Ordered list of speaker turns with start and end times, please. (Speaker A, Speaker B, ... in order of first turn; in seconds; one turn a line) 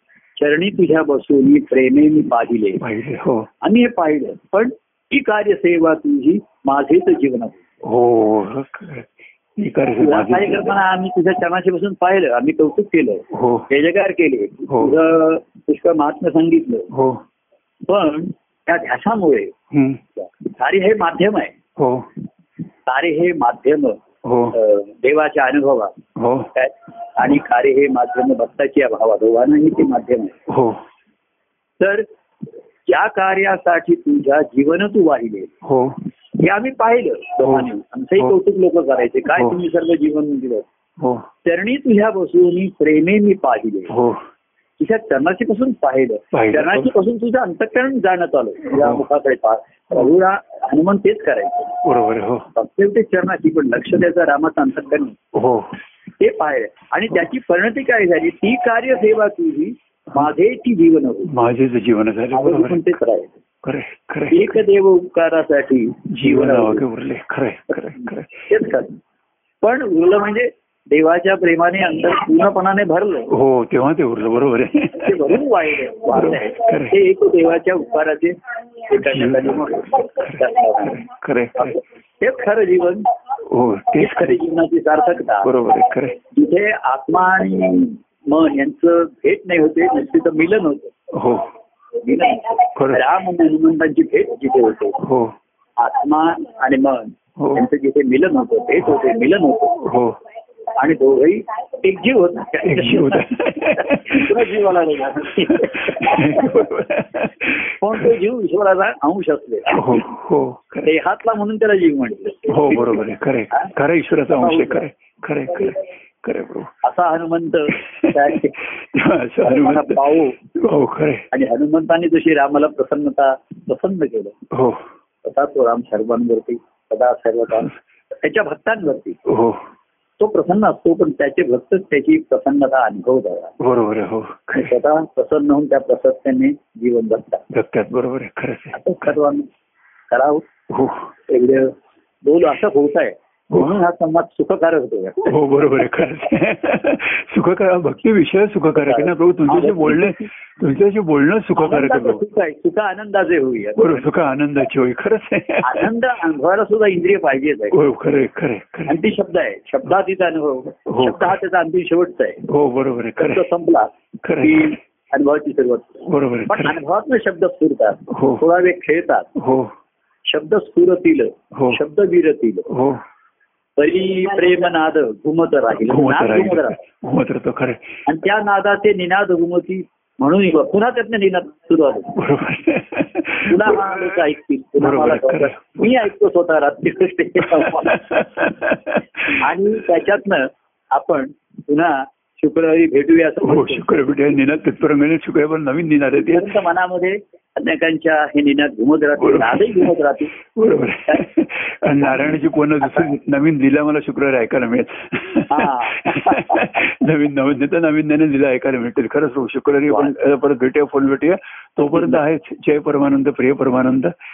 Speaker A: 0.4-2.8
Speaker B: 2.8-3.5
Speaker A: 3.6-7.6
Speaker B: 7.8-10.8
Speaker A: 10.0-16.9
Speaker B: 13.3-13.7
Speaker B: 14.7-14.9
Speaker B: 16.9-17.2
Speaker A: 17.9-19.5
Speaker B: 19.7-20.0
Speaker A: 20.2-21.5
Speaker B: 21.8-22.1
Speaker A: 22.9-24.0
Speaker B: 24.2-24.6
Speaker A: 24.5-25.9
Speaker B: 26.2-26.5
Speaker A: 26.6-30.4
Speaker B: 30.5-30.8
Speaker A: 31.8-32.1
Speaker A: 32.9-35.5
Speaker B: 35.6-36.0
Speaker A: 36.4-40.7
Speaker B: 37.4-37.7
Speaker B: 41.0-41.3
Speaker A: 41.4-43.9
Speaker B: 43.9-44.2
Speaker A: 44.8-51.8
Speaker B: 46.3-46.9
Speaker B: 48.7-49.0
Speaker B: 51.8-52.5
Speaker A: 52.5-55.2
Speaker B: 55.3-55.7
Speaker A: 56.2-61.3
Speaker B: 61.3-63.0
Speaker A: 62.3-63.4
Speaker B: 63.6-64.6
Speaker A: 64.3-66.8
Speaker B: 66.1-68.5
Speaker A: 67.7-69.0
Speaker A: 69.6-73.3
Speaker B: 73.3-75.4
Speaker A: 74.9-81.0
Speaker B: 76.1-77.0
Speaker B: 79.0-81.8
Speaker A: 81.6-83.1
Speaker B: 83.5-84.4
Speaker A: 84.0-85.5
Speaker B: 85.4-86.2
Speaker A: 86.3-90.9
Speaker B: 91.1-91.5
Speaker A: 92.0-95.0
Speaker B: 92.8-93.1
Speaker B: 95.0-95.3
Speaker A: 95.8-100.0
Speaker B: 97.4-97.6
Speaker B: 99.8-100.2
Speaker A: 100.7-106.7
Speaker B: 102.6-104.5
Speaker B: 105.3-108.1
Speaker A: 107.8-110.1
Speaker B: 109.7-110.9
Speaker A: 110.8-113.7
Speaker B: 112.5-116.7
Speaker A: 114.3-114.9
Speaker A: 116.8-118.7
Speaker B: 117.7-120.0
Speaker A: 119.4-120.4
Speaker B: 120.5-121.3
Speaker A: 121.3-124.3
Speaker B: 124.5-124.8
Speaker A: 125.2-129.2
Speaker B: 129.3-129.6
Speaker A: 130.2-133.5
Speaker B: 133.6-134.7
Speaker A: 134.6-137.4
Speaker B: 137.5-139.2
Speaker A: 138.7-139.5
Speaker A: 140.1-140.5
Speaker B: 140.7-141.1
Speaker A: 141.3-145.4
Speaker B: 143.5-143.8
Speaker B: 145.2-152.2
Speaker A: 148.8-150.3
Speaker A: 151.6-154.2
Speaker B: 153.8-155.9
Speaker A: 155.6-157.8
Speaker B: 157.7-159.0
Speaker A: 158.9-162.4
Speaker B: 160.9-161.4
Speaker B: 162.5-163.4
Speaker A: 163.2-169.3
Speaker B: 164.2-164.8
Speaker B: 166.1-166.8
Speaker B: 168.1-168.4
Speaker B: 169.4-169.7
Speaker A: 170.3-172.7
Speaker B: 171.5-171.8
Speaker B: 172.7-173.0
Speaker A: 173.8-176.8
Speaker B: 175.8-178.0
Speaker A: 178.1-182.2
Speaker B: 182.2-184.2
Speaker A: 183.5-188.0
Speaker B: 184.8-186.1
Speaker B: 187.4-189.4
Speaker A: 189.4-194.0
Speaker B: 193.4-196.5
Speaker A: 196.2-200.3
Speaker B: 199.2-199.9
Speaker B: 200.4-214.1
Speaker A: 205.5-206.9
Speaker A: 209.9-210.1
Speaker A: 211.8-212.2